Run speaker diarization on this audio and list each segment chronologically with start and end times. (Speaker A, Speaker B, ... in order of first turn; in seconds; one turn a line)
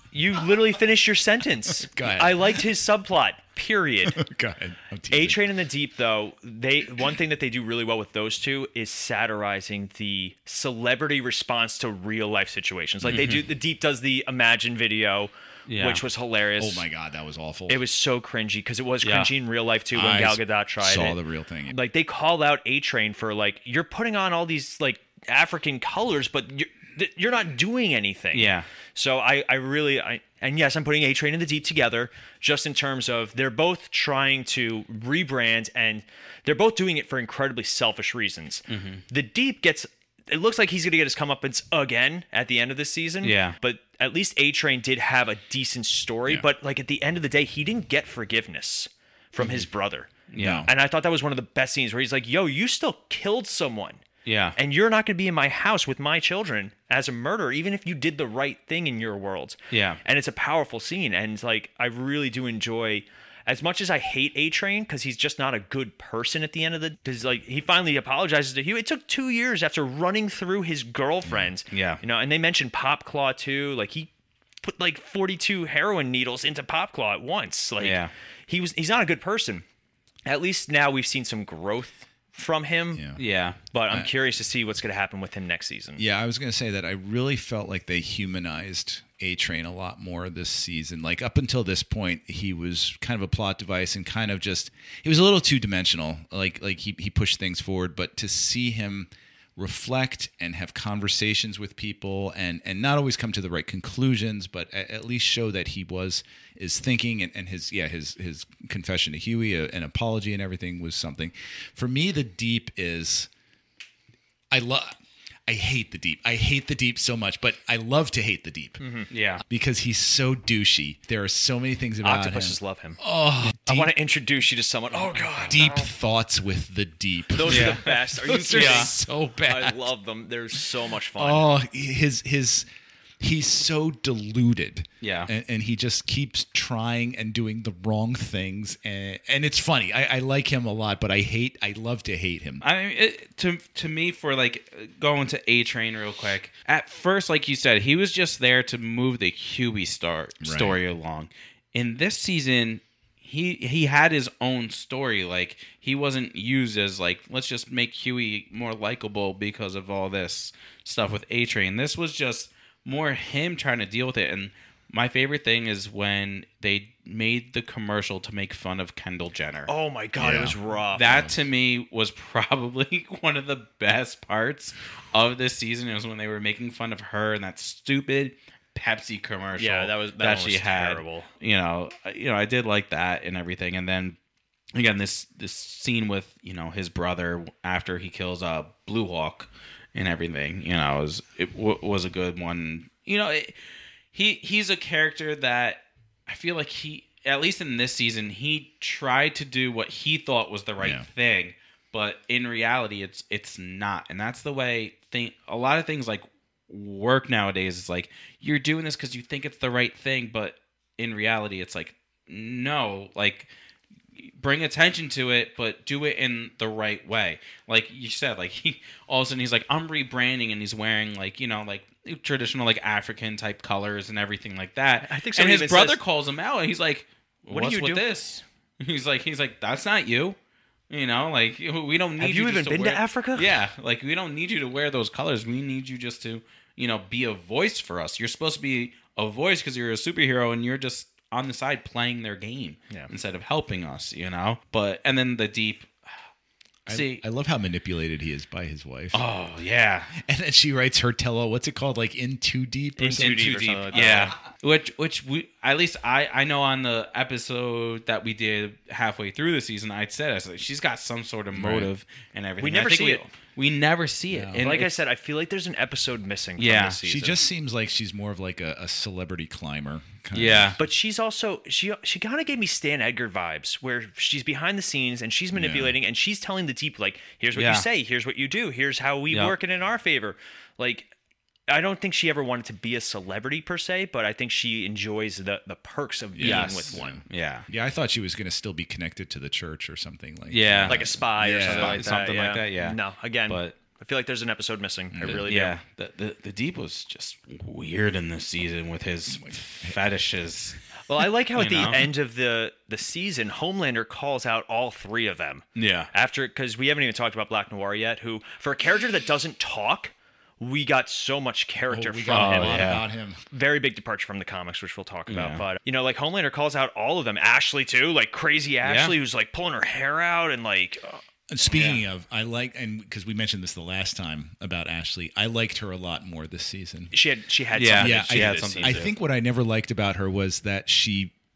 Speaker A: 0.1-4.2
Speaker B: 1.8-2.7
Speaker B: 4.1-5.4
Speaker A: 5.1-16.9
Speaker C: 13.1-13.4
Speaker C: 15.7-16.0
Speaker B: 16.6-17.8
Speaker A: 17.7-50.1
Speaker C: 19.0-19.3
Speaker B: 19.9-21.8
Speaker C: 28.3-28.6
Speaker C: 38.7-39.0
Speaker C: 43.2-43.5
Speaker C: 50.3-50.7
Speaker B: 50.4-50.7
Speaker A: 50.6-54.0
Speaker C: 54.2-54.6
Speaker A: 54.5-74.1
Speaker C: 59.7-60.0
Speaker C: 71.7-72.0
Speaker A: 74.6-79.6
Speaker C: 77.8-78.1
Speaker A: 80.2-83.1
Speaker B: 82.9-83.2
Speaker C: 83.2-83.6
Speaker A: 83.7-86.0
Speaker B: 86.0-113.3
Speaker B: 114.5-118.8
Speaker A: 118.8-119.1
Speaker C: 119.1-119.4
Speaker B: 119.4-123.9
Speaker A: 122.0-123.0
Speaker A: 123.6-125.9
Speaker B: 125.4-129.9
Speaker A: 127.3-131.5
Speaker C: 127.5-128.9
Speaker B: 131.2-132.7
Speaker B: 133.2-142.6
Speaker C: 135.0-135.3
Speaker C: 142.6-169.7
Speaker B: 150.4-150.8
Speaker A: 169.7-171.3
Speaker B: 170.2-170.6
Speaker C: 170.9-184.2
Speaker A: 179.6-181.3
Speaker C: 184.7-193.6
Speaker C: 194.1-213.5
Speaker B: 200.8-201.1
Speaker C: 214.2-230.3
Speaker A: 225.0-226.0
Speaker A: 227.5-228.1
Speaker C: 230.9-245.9
Speaker A: 232.2-233.6
Speaker B: 246.9-249.2
Speaker C: 246.9-247.2
Speaker C: 249.1-250.1
Speaker B: 250.1-254.0
Speaker A: 253.0-254.3
Speaker C: 253.2-264.9
Speaker B: 261.5-261.9
Speaker A: 262.6-263.2
Speaker B: 264.3-264.7
Speaker A: 264.6-267.4
Speaker C: 266.6-267.0
Speaker B: 267.0-270.8
Speaker C: 270.3-270.8
Speaker A: 270.8-281.1
Speaker B: 275.5-275.9
Speaker C: 277.5-277.9
Speaker C: 279.3-279.5
Speaker A: 281.7-287.2
Speaker B: 286.3-292.1
Speaker C: 286.4-287.7
Speaker C: 290.5-293.8
Speaker A: 290.9-295.8
Speaker B: 295.1-295.5
Speaker C: 295.4-300.8
Speaker B: 299.4-300.0
Speaker A: 301.1-313.0
Speaker C: 301.5-302.1
Speaker C: 305.8-306.1
Speaker B: 311.9-313.4
Speaker C: 312.3-313.0
Speaker A: 313.5-321.2
Speaker C: 315.3-315.6
Speaker C: 318.8-319.1
Speaker B: 321.5-327.1
Speaker C: 321.7-322.0
Speaker A: 327.1-329.0
Speaker C: 327.7-329.1
Speaker B: 328.0-331.3